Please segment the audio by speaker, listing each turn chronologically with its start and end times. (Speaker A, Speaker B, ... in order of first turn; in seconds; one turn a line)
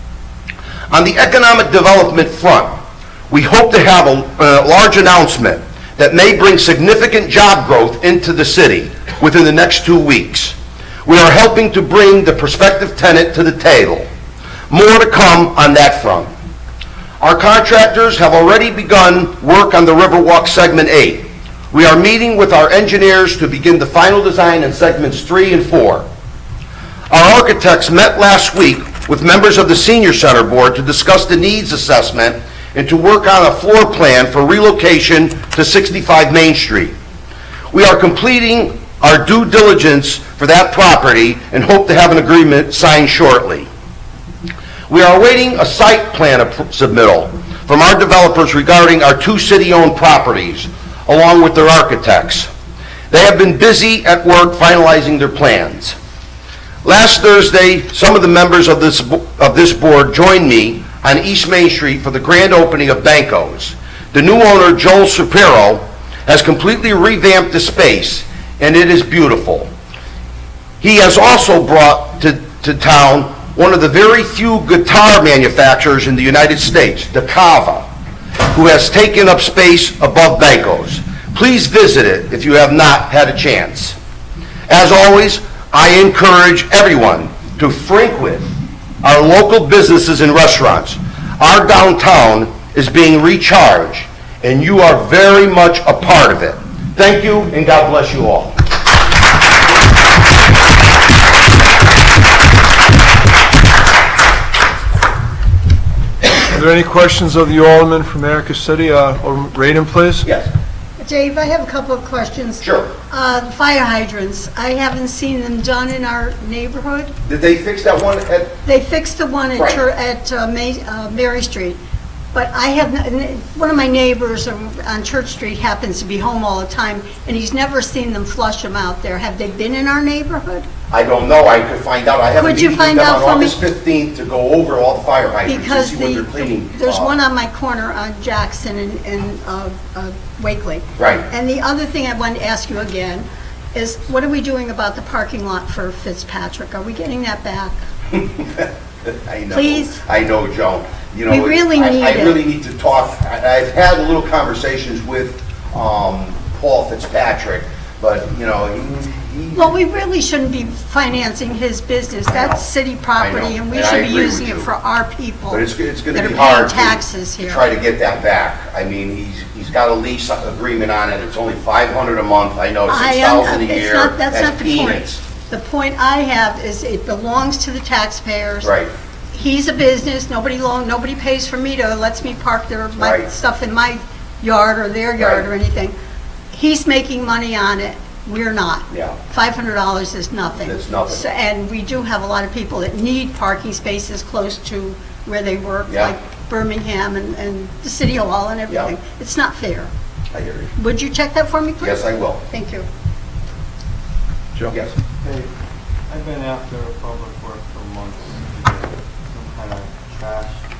Speaker A: 0.9-2.7
Speaker A: 3.3-14.1
Speaker A: 14.7-16.3
Speaker A: 17.2-26.1
Speaker A: 27.1-36.9
Speaker A: 37.7-43.7
Speaker A: 44.9-52.5
Speaker A: 53.1-56.0
Speaker A: 56.8-69.7
Speaker A: 70.8-77.8
Speaker A: 78.5-84.0
Speaker A: 84.7-88.5
Speaker A: 89.0-98.5
Speaker B: 106.3-110.2
Speaker A: 110.2-110.5
Speaker C: 111.0-117.1
Speaker A: 112.6-112.9
Speaker A: 117.2-118.6
Speaker C: 118.7-121.8
Speaker C: 122.3-130.7
Speaker A: 130.9-137.1
Speaker C: 132.4-133.6
Speaker C: 135.4-147.8
Speaker A: 141.0-141.3
Speaker A: 148.2-159.8
Speaker C: 149.5-150.0
Speaker C: 151.3-152.4
Speaker C: 159.5-167.7
Speaker A: 162.3-162.6
Speaker A: 163.2-164.7
Speaker A: 165.5-175.2
Speaker C: 172.9-178.7
Speaker A: 178.6-178.9
Speaker C: 179.3-185.9
Speaker A: 183.0-183.3
Speaker A: 185.2-185.4
Speaker C: 186.5-199.9
Speaker A: 188.9-189.2
Speaker A: 190.6-191.2
Speaker A: 195.9-196.1
Speaker A: 200.3-200.7
Speaker C: 200.8-202.9
Speaker A: 201.8-202.4
Speaker A: 204.7-204.9
Speaker D: 205.2-205.5
Speaker D: 206.1-210.6